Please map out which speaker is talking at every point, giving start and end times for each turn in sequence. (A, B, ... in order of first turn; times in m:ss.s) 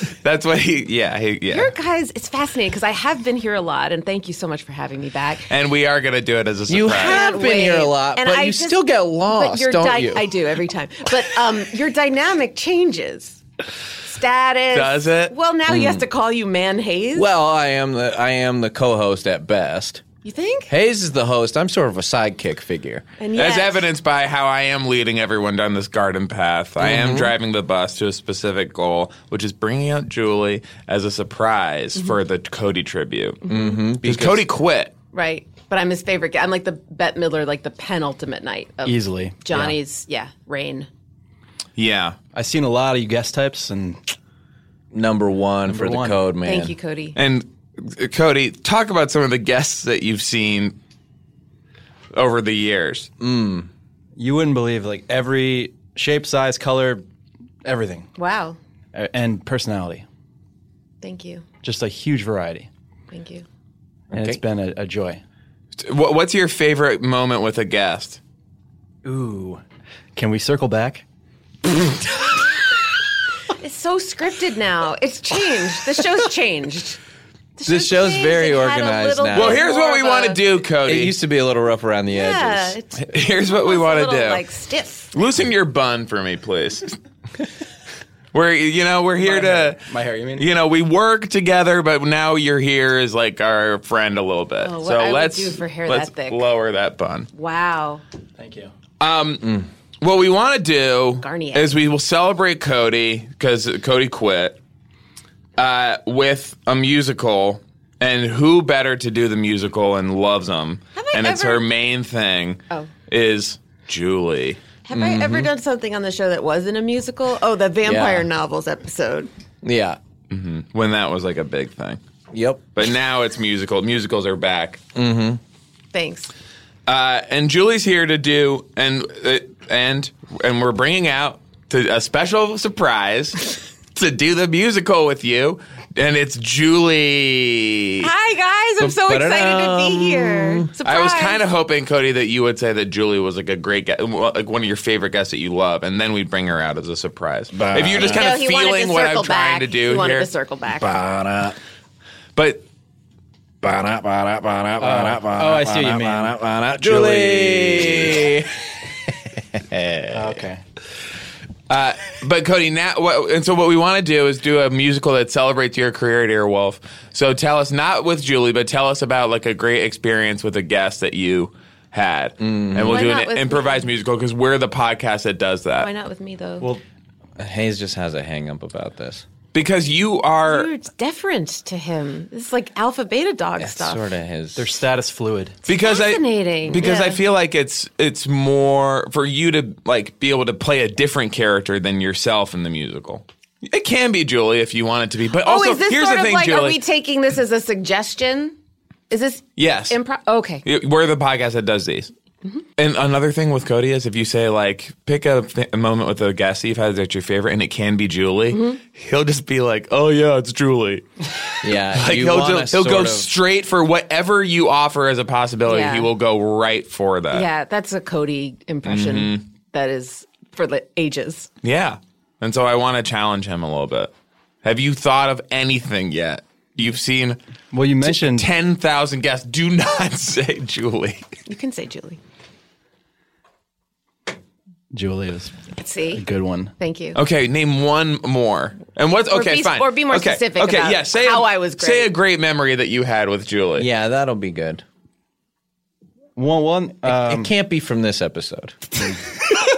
0:00.2-0:01.7 A
0:01.5-0:05.4 B
0:05.5-0:07.2 A
0:06.7-0:10.3 C
0:07.0-0:13.4 B
0:14.0-0:17.3 B
0:14.7-0:15.3 A
0:15.7-0:16.0 C
0:17.1-0:20.0 C
0:20.2-0:20.7 B
0:20.7-0:23.0 C
0:23.2-0:23.8 B
0:23.3-0:33.4 A
0:26.8-0:27.3 C
0:33.4-0:33.7 B
0:33.4-0:34.5 C
0:34.0-0:34.9 A
0:35.1-0:40.9 B
0:38.8-0:39.8 D
0:41.8-0:42.2 A
0:42.3-0:44.0 D
0:44.9-0:46.7 C
0:45.7-0:46.2 D
0:46.4-0:47.2 B
0:47.2-0:50.8 A
0:52.1-0:53.1 A
0:53.2-0:53.7 C
0:54.2-0:57.0 D
0:57.6-0:58.1 D
0:58.2-0:58.6 B
0:58.9-1:00.0 D
1:01.0-1:01.4 B
1:01.6-1:02.7 D
1:03.1-1:03.4 B
1:04.1-1:04.4 C
1:04.1-1:05.2 D
1:05.8-1:08.2 A
1:09.0-1:09.6 D
1:10.2-1:11.0 D
1:13.5-1:17.0 B
1:17.6-1:20.5 B
1:17.6-1:19.6 C
1:19.3-1:21.2 A
1:20.8-1:22.8 C
1:22.1-1:25.1 B
1:23.0-1:24.4 A
1:25.1-1:27.0 A
1:28.3-1:37.3 A
1:29.2-1:30.4 D
1:34.6-1:36.4 B
1:37.3-1:38.0 B
1:38.4-1:38.7 D
1:39.0-1:44.6 A
1:39.4-1:39.7 C
1:41.2-1:41.7 B
1:45.6-1:54.6 A
1:50.9-1:51.6 B
1:54.8-1:59.3 B
1:54.9-1:55.5 C
1:57.8-1:58.3 C
1:59.6-2:00.0 C
2:00.3-2:02.0 A
2:02.3-2:02.6 C
2:02.7-2:04.8 A
2:04.9-2:05.4 C
2:05.9-2:06.3 B
2:06.8-2:18.1 A
2:18.0-2:21.4 B
2:18.8-2:20.7 C
2:20.8-2:30.3 A
2:27.5-2:28.4 C
2:28.0-2:30.9 B
2:30.8-2:31.6 C
2:32.4-2:32.6 A
2:33.6-2:40.4 C
2:34.8-2:38.1 D
2:40.1-2:40.6 D
2:41.7-2:55.9 A
2:52.4-2:53.0 C
2:52.8-2:53.9 B
2:55.8-2:56.7 B
2:57.4-2:59.2 C
2:59.5-3:00.7 A
3:00.4-3:04.0 B
3:03.6-3:04.7 C
3:04.6-3:05.6 D
3:05.6-3:07.2 B
3:05.6-3:16.8 A
3:15.4-3:18.6 B
3:19.1-3:20.6 B
3:19.6-3:20.0 A
3:20.6-3:22.1 A
3:22.8-3:37.4 A
3:28.5-3:28.8 B
3:31.6-3:33.3 C
3:35.6-3:36.1 B
3:37.3-3:41.5 B
3:38.8-3:39.4 A
3:41.6-3:44.1 A
3:44.6-3:47.4 A
3:47.7-3:48.4 D
3:48.0-3:51.3 A
3:51.4-3:52.2 B
3:54.9-3:55.6 D
3:55.8-3:56.2 B
3:56.1-3:56.7 D
3:56.8-3:57.2 B
3:57.1-4:03.9 A
3:59.3-4:02.1 B
4:03.8-4:04.8 C
4:06.4-4:07.5 D
4:07.0-4:08.8 C